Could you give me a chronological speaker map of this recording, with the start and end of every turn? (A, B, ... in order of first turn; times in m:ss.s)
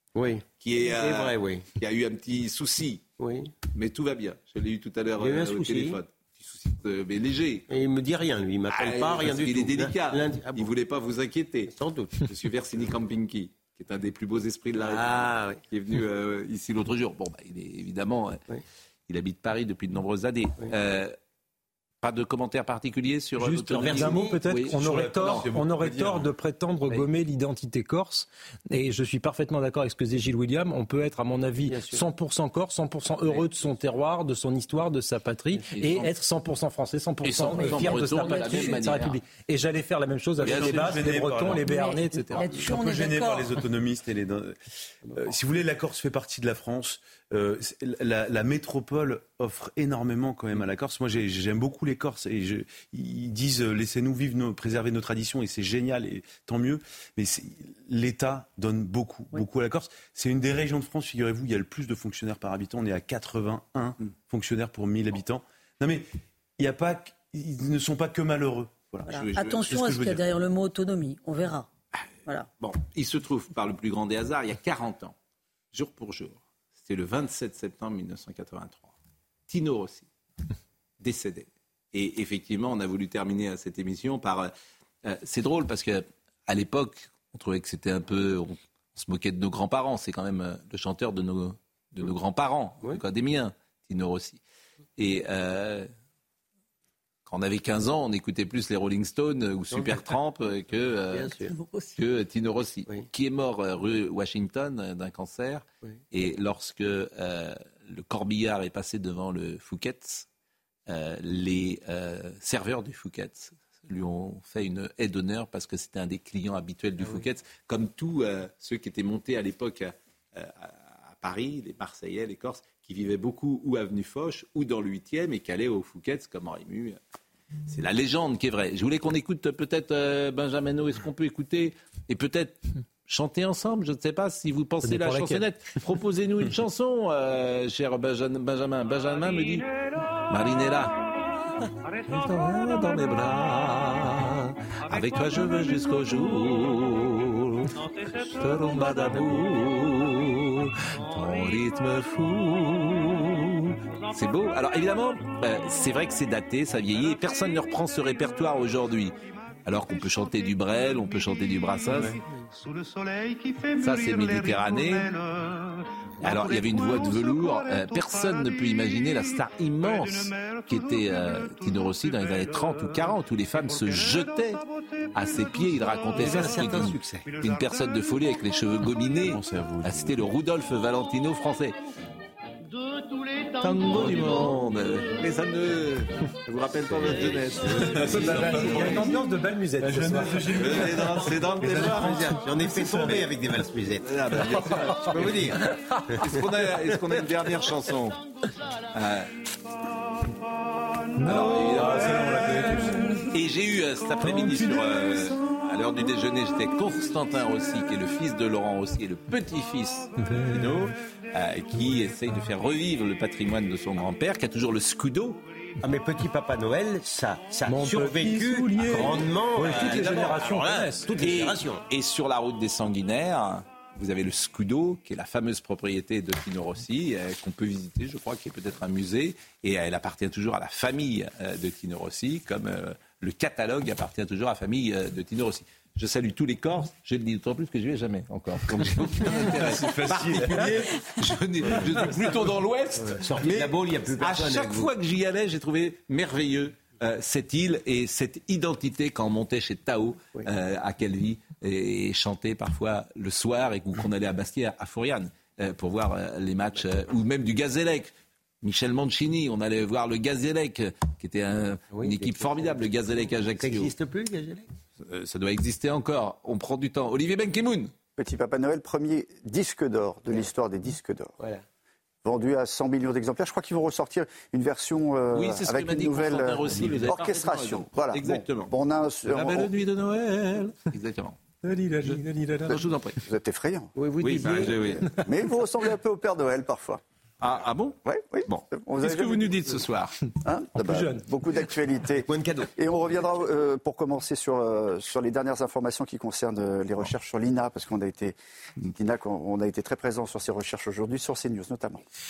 0:00.1-0:01.6 A
0:00.6-0:03.0 B
0:03.2-0:03.5 A
0:03.7-0:07.7 B
0:05.2-0:06.0 A
0:07.7-0:10.7 A
0:08.7-0:18.4 B
0:11.7-0:12.2 A
0:14.8-0:15.6 A
0:19.1-0:21.1 B
0:22.0-0:25.5 B
0:23.4-0:42.5 C
0:23.7-0:24.4 A
0:24.7-0:26.3 D
0:31.7-0:32.0 A
0:35.7-0:36.1 B
0:37.2-0:39.2 B
0:38.2-0:38.6 E
0:40.4-0:41.8 D
0:40.4-0:42.5 B
0:41.6-0:43.6 E
0:42.5-1:06.1 D
1:06.6-1:10.0 D
1:09.0-1:11.7 E
1:09.1-1:10.2 B
1:12.6-1:15.2 B
1:15.7-1:18.9 B
1:19.5-1:20.1 B
1:21.0-1:24.5 B
1:25.0-1:34.4 B
1:35.0-1:35.9 B
1:37.2-1:50.3 B
1:39.7-1:40.0 A
1:41.1-1:41.5 A
1:41.6-1:41.9 E
1:50.9-2:07.0 B
2:07.7-2:19.7 B
2:14.8-2:15.4 C
2:20.3-2:21.1 B
2:22.0-2:42.2 B
2:43.6-2:45.2 B
2:46.2-2:54.6 B
2:55.1-3:01.8 B
2:56.2-2:57.3 A
2:59.2-3:00.2 D
3:03.6-3:09.0 B
3:07.0-3:07.5 A
3:07.7-3:13.3 D
3:07.9-3:10.8 C
3:10.5-3:12.1 B
3:11.7-3:17.0 A
3:14.0-3:15.6 B
3:15.7-3:16.1 C
3:16.2-3:18.2 B
3:18.9-3:19.3 B
3:21.2-3:23.2 C
3:21.2-3:22.4 B
3:21.3-3:23.2 D
3:23.3-3:35.4 B
3:24.2-3:25.4 C
3:30.2-3:30.8 C
3:35.8-3:41.8 A
3:37.6-3:41.1 C
3:39.7-3:40.4 B
3:41.2-4:23.9 B
3:59.2-4:00.9 D
4:03.0-4:04.9 A
4:21.9-4:24.7 A
4:25.0-4:27.9 B
4:28.2-4:31.3 F
4:32.2-4:39.7 F
4:35.3-4:38.7 B
4:39.3-4:41.4 B
4:41.6-4:42.8 C
4:42.0-4:43.2 B
4:42.7-4:43.9 F
4:43.9-4:45.0 A
4:44.2-4:45.1 B
4:44.6-4:47.0 F
4:47.4-4:50.2 B
4:48.0-4:49.8 F
4:50.4-5:02.0 F
4:50.7-4:51.3 C
4:52.2-4:52.7 A